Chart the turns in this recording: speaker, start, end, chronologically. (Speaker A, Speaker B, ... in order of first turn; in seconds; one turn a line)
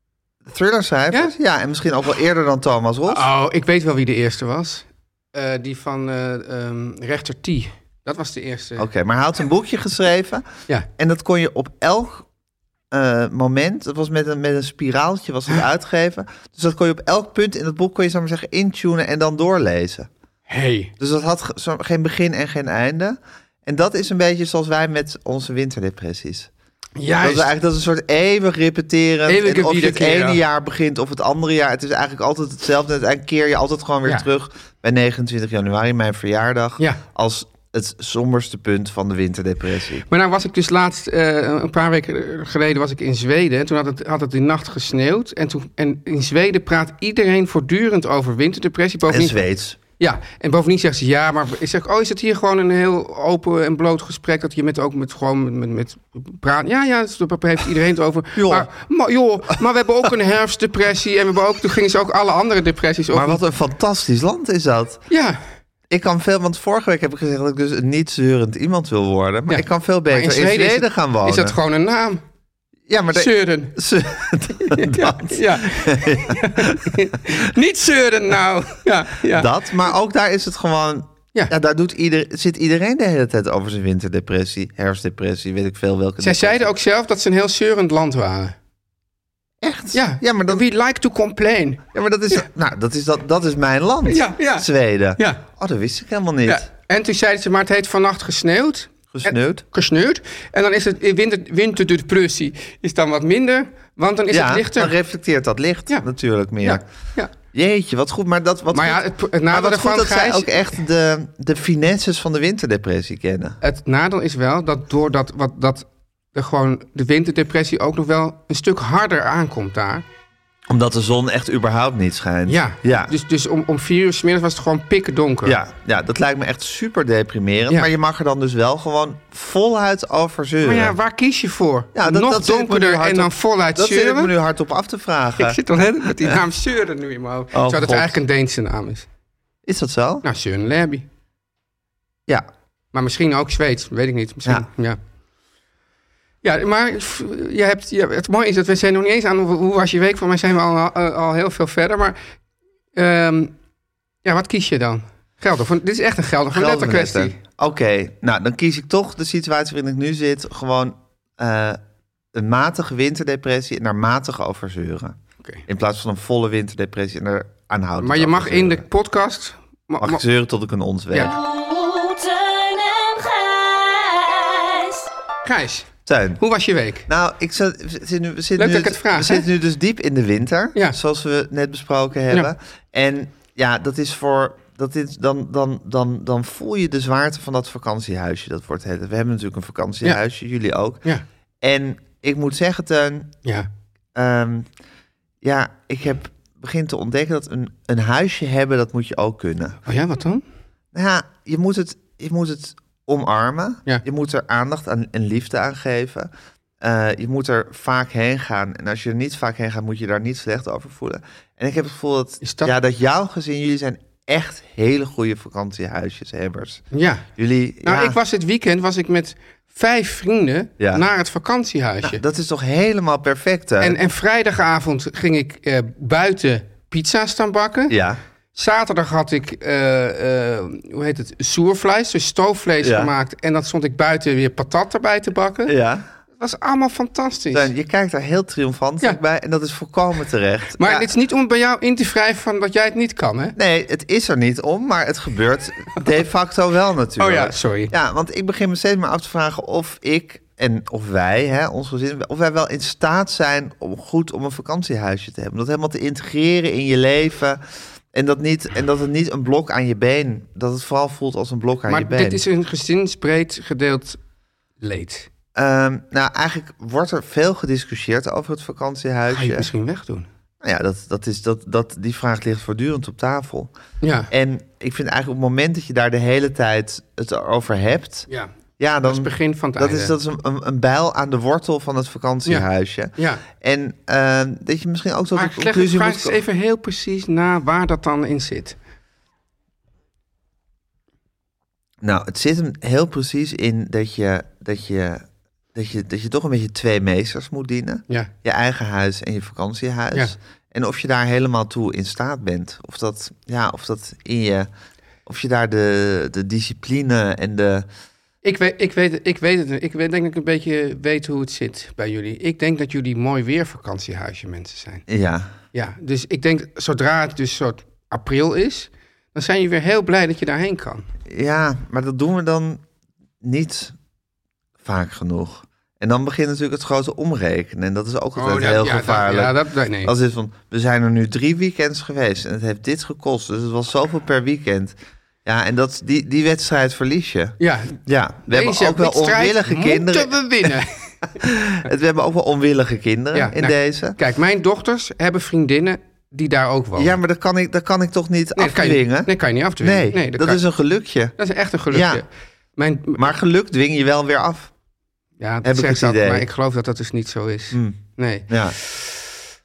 Speaker A: 0.4-3.3
Speaker B: 3.1-8.8
Speaker A: 8.8-10.4
Speaker A: 11.0-12.2
Speaker A: 12.9-20.1
Speaker B: 20.5-20.9
Speaker A: 21.0-26.5
Speaker B: 27.0-27.5
Speaker A: 27.2-40.0
Speaker B: 29.3-30.4
Speaker B: 40.1-49.4
Speaker A: 49.1-49.8
Speaker B: 50.0-63.4
Speaker A: 58.4-58.7
Speaker A: 63.1-65.0
Speaker B: 65.1-65.4
Speaker A: 65.9-71.5
Speaker B: 69.5-72.2
Speaker A: 72.9-77.1
Speaker B: 73.1-73.8
Speaker B: 74.6-79.5
Speaker A: 79.3-86.7
Speaker B: 86.2-88.5
Speaker A: 89.6-90.6
Speaker B: 89.9-92.4
Speaker A: 91.9-96.7
Speaker B: 94.0-95.4
Speaker B: 96.4-104.9
Speaker A: 99.1-99.6
Speaker A: 104.3-106.8
Speaker B: 106.6-107.3
Speaker A: 107.5-113.6
Speaker B: 108.7-110.7
Speaker B: 113.6-120.0
Speaker A: 120.7-123.1
Speaker B: 122.5-125.6
Speaker A: 125.4-130.9
Speaker B: 130.6-134.3
Speaker A: 131.9-135.6
Speaker B: 135.4-139.1
Speaker A: 137.5-138.2
Speaker A: 139.7-140.2
Speaker B: 140.2-141.0
Speaker B: 142.9-145.0
Speaker B: 146.4-152.2
Speaker B: 152.9-153.5
Speaker B: 154.2-157.4
Speaker A: 156.5-161.8
Speaker A: 162.3-168.8
Speaker B: 168.0-170.2
Speaker A: 170.0-171.3
Speaker C: 171.2-175.1
Speaker B: 175.4-177.1
Speaker A: 176.1-176.4
Speaker A: 177.1-191.0
Speaker B: 178.6-179.4
Speaker A: 191.6-193.3
Speaker A: 194.1-194.7
Speaker A: 195.4-199.8
Speaker B: 199.9-200.4
Speaker A: 200.9-206.3
Speaker A: 206.8-216.8
Speaker B: 212.4-212.7
Speaker B: 216.9-217.2
Speaker A: 217.4-218.2
Speaker B: 217.8-222.2
Speaker A: 220.8-221.0
Speaker A: 222.0-224.0
Speaker B: 223.8-227.9
Speaker A: 227.9-228.2
Speaker B: 228.5-235.7
Speaker A: 232.8-233.1
Speaker A: 235.7-236.1
Speaker B: 236.4-237.7
Speaker A: 237.5-241.1
Speaker B: 240.8-243.5
Speaker A: 243.5-257.6
Speaker B: 247.2-247.9
Speaker A: 258.1-262.4
Speaker B: 261.9-264.2
Speaker B: 264.8-265.3
Speaker A: 265.5-269.7
Speaker B: 269.3-270.3
Speaker A: 270.6-273.7
Speaker B: 274.0-274.3
Speaker A: 274.3-278.3
Speaker A: 278.8-286.4
Speaker B: 279.0-280.1
Speaker B: 282.4-283.4
Speaker B: 285.4-288.8
Speaker A: 292.0-304.7
Speaker A: 305.2-307.9
Speaker B: 308.4-315.0
Speaker A: 315.1-315.5
Speaker B: 315.7-321.1
Speaker A: 321.3-322.8
Speaker A: 323.4-323.9
Speaker A: 324.8-337.5
Speaker B: 328.4-330.1
Speaker B: 337.6-341.3
Speaker A: 338.1-340.7
Speaker A: 341.4-344.1
Speaker B: 343.3-347.2
Speaker A: 346.9-351.3
Speaker B: 348.6-350.6
Speaker B: 351.4-353.3
Speaker A: 351.9-352.2
Speaker A: 353.1-354.7
Speaker B: 355.4-359.2
Speaker A: 355.6-356.5
Speaker A: 357.7-358.7